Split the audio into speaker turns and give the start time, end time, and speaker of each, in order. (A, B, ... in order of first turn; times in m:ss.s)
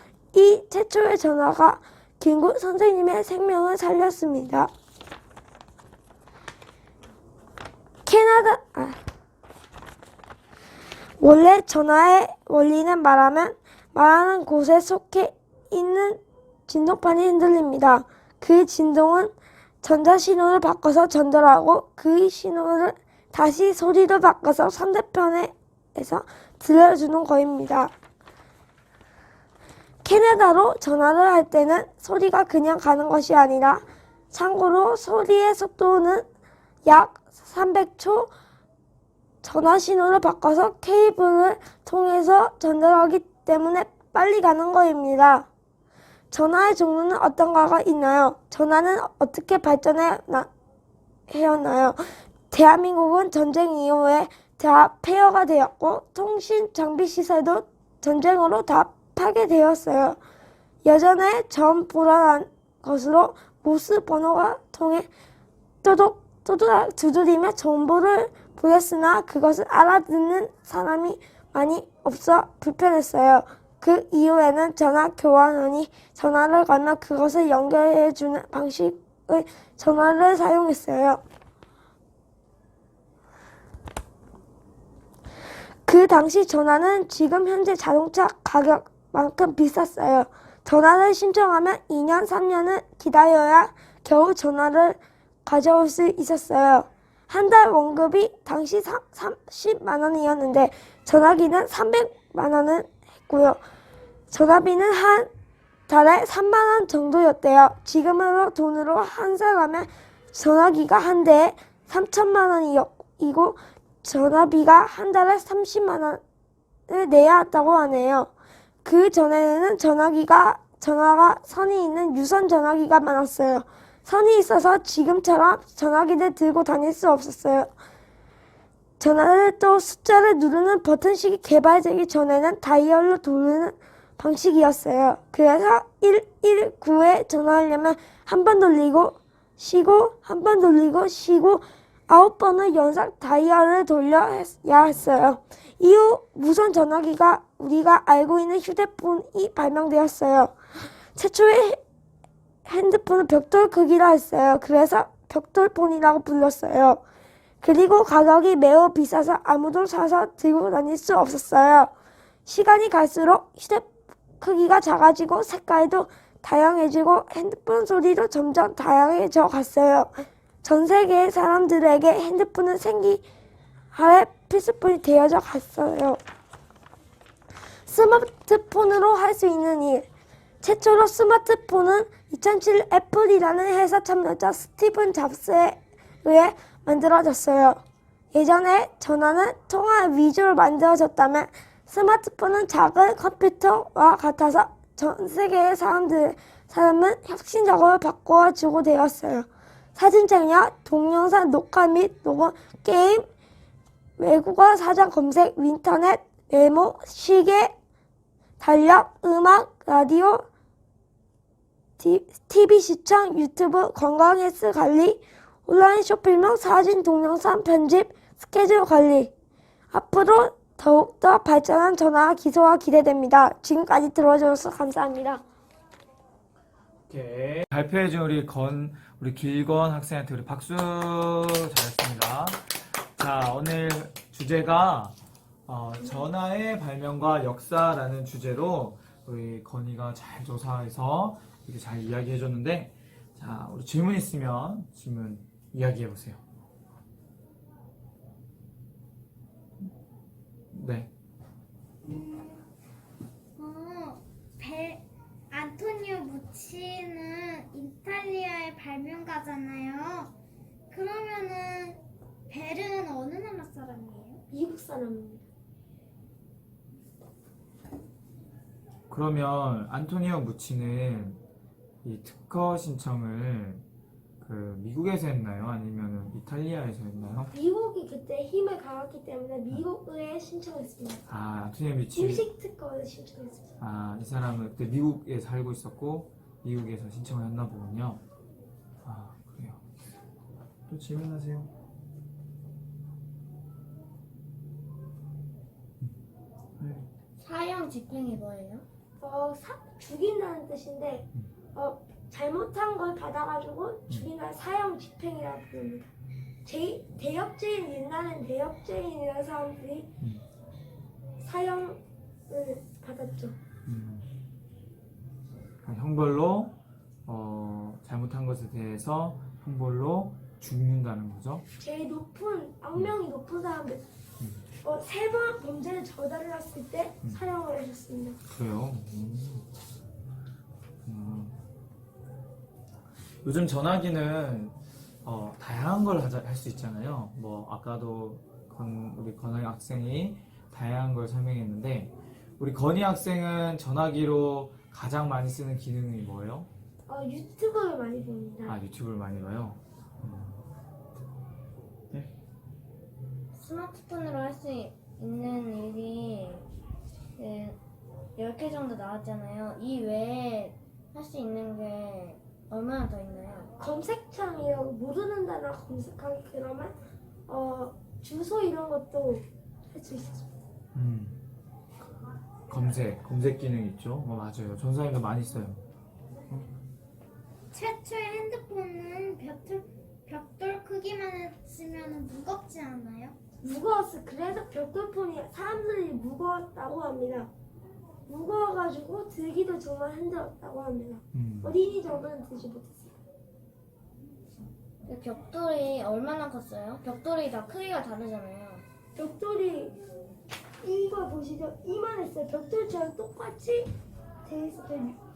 0:00.3-0:04.7 A
0:08.0-0:09.0 A
0:11.2-0:27.9 A
0:30.0-0:36.3 A
0:36.8-0:38.3 A
0:39.4-0:45.5 A
0:46.3-0:50.5 A
0:51.3-1:00.2 A
1:00.8-1:05.1 A
1:05.8-1:21.2 A
1:25.9-1:43.6 A
1:44.3-1:45.3 A
1:45.9-1:56.2 A
1:56.9-1:58.3 A
1:58.8-2:07.7 A
2:09.0-2:30.6 A
2:31.1-2:31.8 A
2:32.7-2:37.0 A
2:37.6-2:41.9 A
2:42.5-2:50.1 A
2:50.6-2:53.2 A
2:53.9-2:56.2 A
2:57.9-3:00.1 A
3:00.6-3:07.8 A
3:08.3-3:23.3 A
3:24.2-3:27.7 A
3:28.6-3:30.4 A
3:32.0-3:39.3 A
3:39.9-3:45.4 A
3:47.1-4:06.4 B
4:10.7-4:11.1 B
4:12.0-4:12.6 C
4:13.6-4:20.3 C
4:20.9-4:24.4 C
4:24.5-4:25.4 A
4:29.1-4:31.4 B
4:32.0-4:33.8 B
4:34.4-4:37.5 B
4:37.5-4:41.2 A
4:41.3-4:42.5 B
4:42.2-4:43.7 A
4:43.8-4:48.2 B
4:49.0-4:49.8 B
4:50.9-4:51.7 B
4:56.8-4:57.1 B
4:57.4-4:58.8 D
4:59.2-5:06.1 A
5:06.6-5:10.1 A
5:11.4-5:13.6 A
5:13.9-5:14.3 B
5:15.8-5:21.6 B
5:21.8-5:24.0 A
5:24.8-5:28.4 A
5:28.5-5:29.7 B
5:31.0-5:31.6 B
5:33.4-5:46.7 B
5:47.1-5:48.8 A
5:48.7-5:50.6 B
5:53.5-5:56.7 D
5:57.4-5:57.8 D
5:58.4-6:03.7 D
6:03.8-6:07.0 A
6:07.5-6:10.5 A
6:10.9-6:11.4 B
6:12.7-6:15.8 B
6:17.7-6:23.4 C
6:23.6-6:27.5 A
6:28.3-6:33.1 A
6:31.3-6:31.8 B
6:35.0-6:38.8 D
6:39.2-6:40.0 A
6:40.8-6:43.9 A
6:44.4-6:45.2 A